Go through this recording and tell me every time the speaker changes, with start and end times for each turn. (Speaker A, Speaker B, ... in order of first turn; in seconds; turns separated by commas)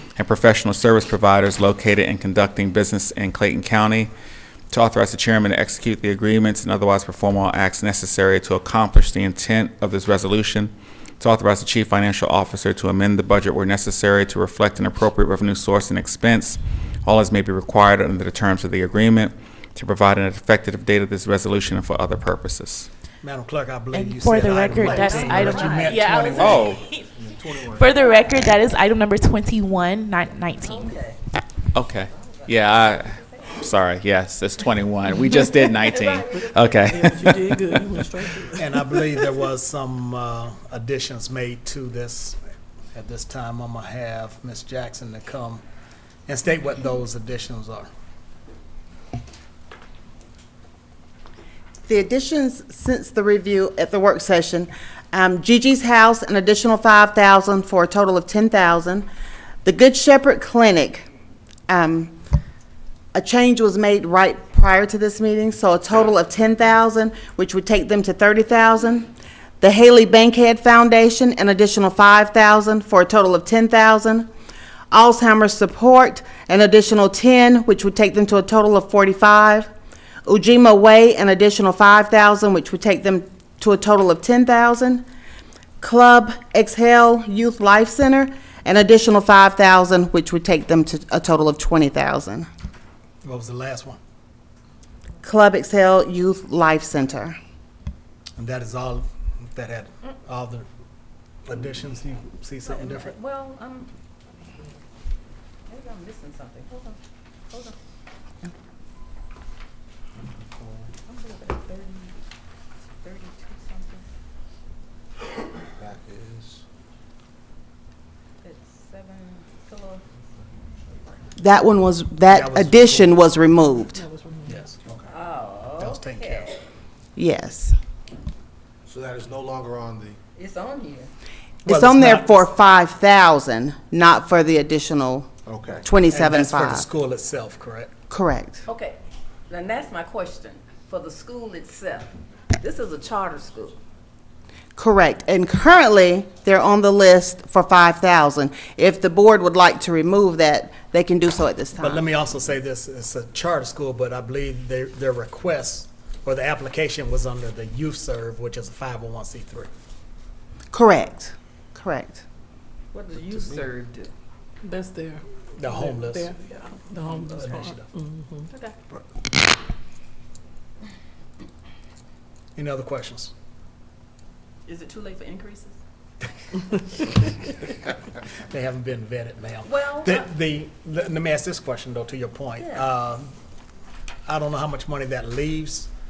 Speaker A: 0.2-4.1, Speaker A: 4.7-22.9, Speaker B: 23.2-26.8, Speaker C: 23.9-30.9, Speaker D: 24.8-26.6, Speaker A: 26.4-26.8, Speaker E: 27.1-28.4, Speaker D: 30.6-31.2, Speaker A: 31.7-38.0, Speaker D: 32.0-33.7, Speaker D: 35.6-37.2, Speaker F: 36.8-38.6, Speaker B: 38.6-42.4, Speaker B: 42.9-45.6, Speaker B: 46.3-47.9, Speaker G: 51.9-59.1, Speaker G: 59.6-61.1, Speaker G: 61.7-62.1, Speaker G: 63.1-69.1, Speaker G: 69.6-74.3, Speaker G: 74.9-79.7, Speaker G: 80.3-85.0, Speaker G: 85.8-92.5, Speaker B: 93.2-94.0, Speaker G: 95.2-97.4, Speaker B: 98.4-100.7, Speaker B: 101.5-103.2, Speaker D: 102.7-103.9, Speaker D: 105.7-107.0, Speaker D: 107.5-107.8, Speaker E: 110.2-110.9, Speaker D: 111.1-112.2, Speaker D: 113.0-114.0, Speaker E: 115.8-116.6, Speaker D: 118.4-120.0, Speaker G: 121.4-124.0, Speaker B: 122.3-123.2, Speaker F: 123.8-124.6, Speaker B: 124.5-124.8, Speaker E: 124.8-125.2, Speaker D: 125.1-126.6, Speaker B: 125.8-126.5, Speaker G: 127.2-127.8, Speaker E: 128.8-130.2, Speaker D: 130.4-131.1, Speaker G: 131.7-135.3, Speaker B: 131.7-132.5, Speaker E: 135.5-135.9, Speaker G: 135.8-136.9, Speaker B: 136.1-137.9, Speaker G: 138.1-138.6, Speaker D: 138.7-139.0, Speaker D: 139.5-143.8, Speaker G: 144.8-152.0, Speaker B: 151.8-159.7, Speaker G: 160.7-162.2, Speaker D: 162.9-164.1, Speaker F: 164.6-168.5, Speaker B: 165.6-166.3, Speaker B: 167.3-167.9, Speaker B: 172.6-173.3, Speaker D: 174.7-175.8, Speaker B: 178.5-183.3, Speaker D: 179.7-180.2, Speaker D: 182.6-182.9, Speaker B: 184.3-185.9